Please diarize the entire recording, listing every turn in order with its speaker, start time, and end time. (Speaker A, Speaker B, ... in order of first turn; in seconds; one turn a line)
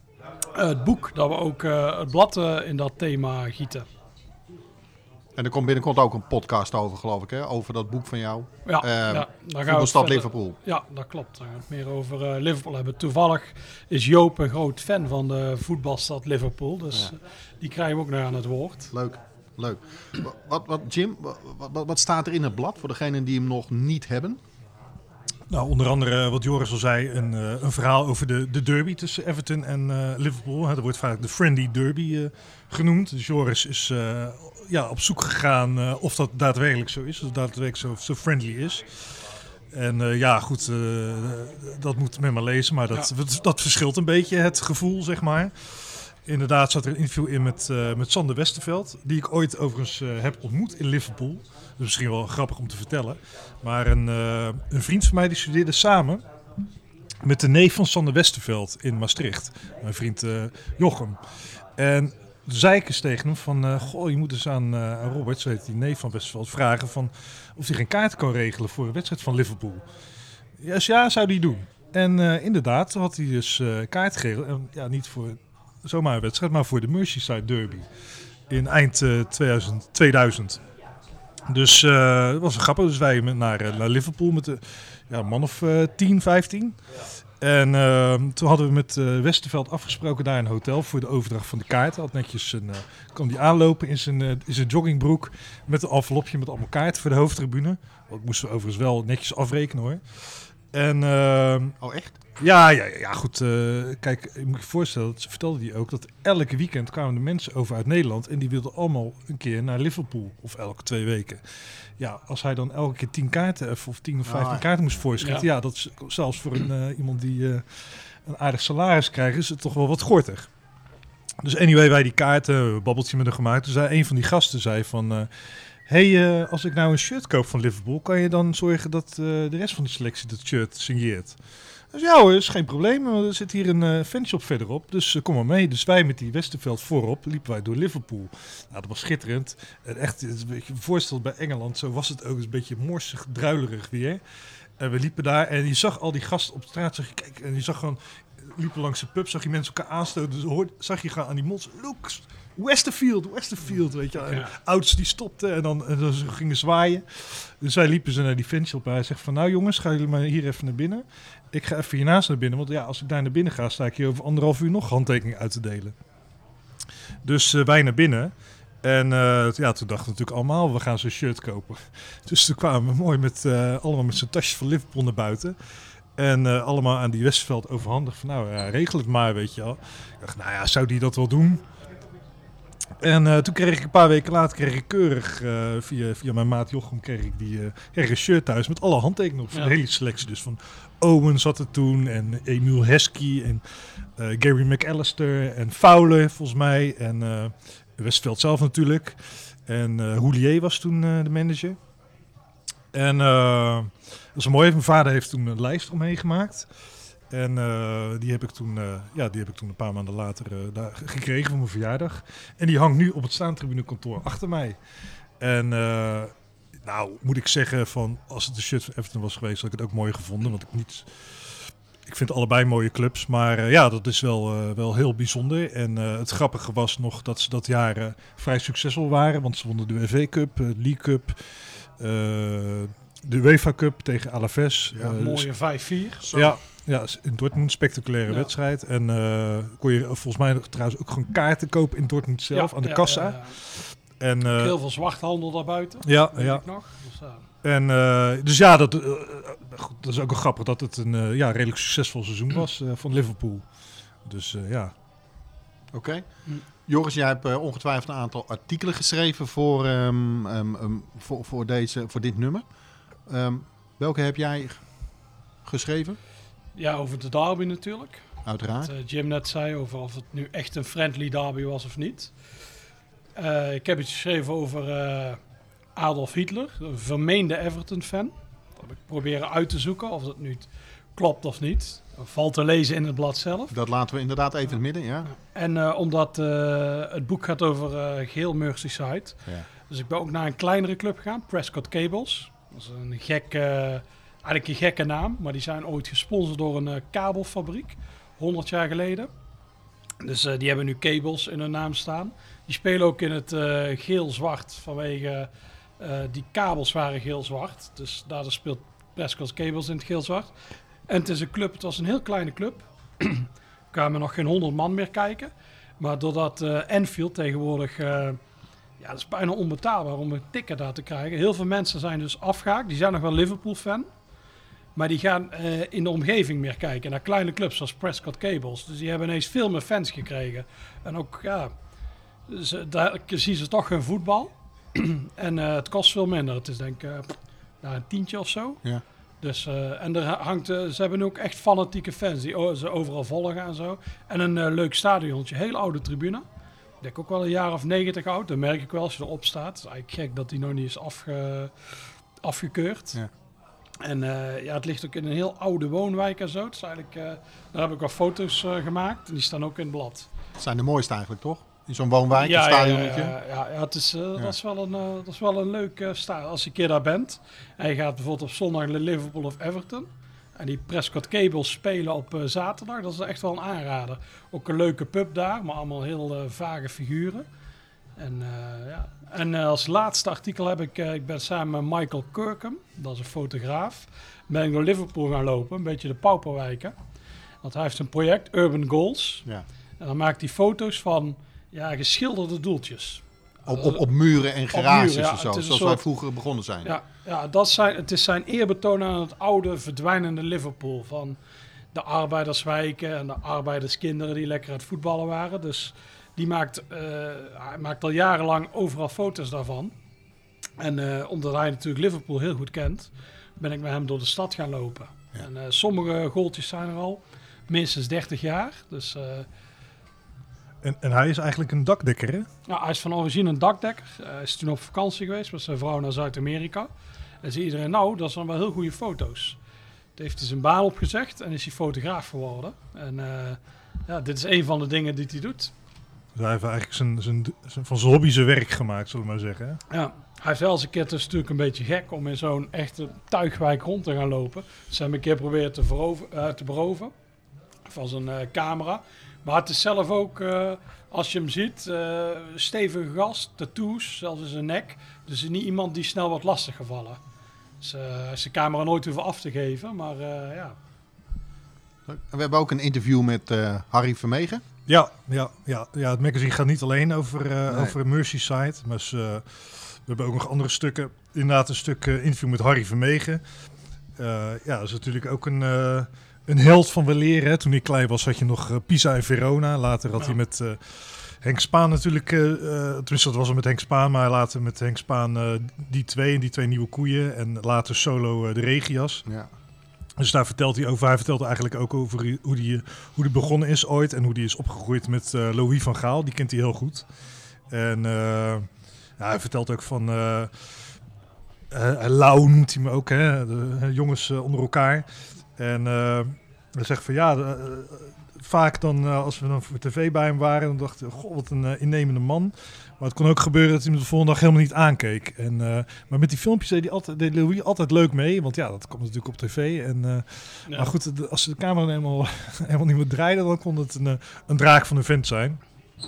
Speaker A: 0.5-3.9
Speaker B: 5.4-10.6
Speaker A: 8.7-18.9
Speaker B: 18.9-24.4
Speaker C: 25.5-39.1
Speaker C: 39.7-56.2
Speaker C: 57.2-61.2
Speaker C: 61.8-69.8
Speaker C: 70.6-77.9
Speaker C: 78.5-80.6
Speaker C: 81.5-86.8
Speaker C: 87.4-101.8
Speaker B: 101.8-102.2
Speaker C: 102.4-120.5
Speaker B: 114.2-114.7
Speaker A: 115.2-115.5
Speaker C: 121.4-125.3
Speaker C: 125.9-131.4
Speaker C: 131.9-144.2
Speaker C: 144.8-165.9
Speaker A: 154.2-154.5
Speaker C: 167.2-175.6
Speaker C: 176.2-181.6
Speaker C: 183.0-193.6
Speaker C: 194.2-201.8
Speaker C: 202.9-206.7
Speaker C: 207.3-214.8
Speaker C: 215.4-235.5
Speaker B: 234.9-235.2
Speaker A: 235.1-236.3
Speaker B: 236.2-236.6
Speaker C: 236.3-244.8
Speaker A: 242.5-243.6
Speaker A: 244.5-247.4
Speaker C: 246.0-246.6
Speaker C: 247.6-253.7
Speaker C: 254.2-254.9
Speaker B: 255.9-256.3
Speaker B: 256.9-262.6
Speaker B: 263.3-264.8
Speaker B: 265.6-266.2
Speaker A: 266.8-268.2
Speaker B: 268.5-268.9
Speaker A: 268.8-272.3
Speaker A: 273.4-275.4
Speaker A: 276.0-283.7
Speaker B: 283.7-285.3
Speaker A: 285.3-299.3
Speaker A: 300.2-310.5
Speaker A: 311.1-318.4
Speaker A: 319.0-324.1
Speaker A: 324.9-331.7
Speaker A: 332.5-338.8
Speaker A: 339.4-346.4
Speaker A: 347.0-353.2
Speaker A: 354.0-360.3
Speaker B: 360.6-363.4
Speaker A: 362.4-377.5
Speaker A: 378.2-386.9
Speaker A: 387.6-389.4
Speaker A: 390.0-394.0
Speaker B: 393.7-396.9
Speaker A: 394.7-396.0
Speaker A: 396.8-401.4
Speaker A: 401.9-409.9
Speaker A: 410.8-419.5
Speaker C: 420.8-422.5
Speaker A: 422.7-426.9
Speaker A: 427.4-429.6
Speaker A: 430.2-435.7
Speaker C: 436.4-439.8
Speaker A: 439.9-447.1
Speaker A: 447.9-457.2
Speaker A: 457.8-460.8
Speaker B: 462.1-464.6
Speaker C: 464.9-473.4
Speaker B: 467.7-467.9
Speaker C: 474.2-489.2
Speaker C: 490.2-497.1
Speaker C: 497.7-500.8
Speaker C: 501.7-505.1
Speaker C: 505.6-525.6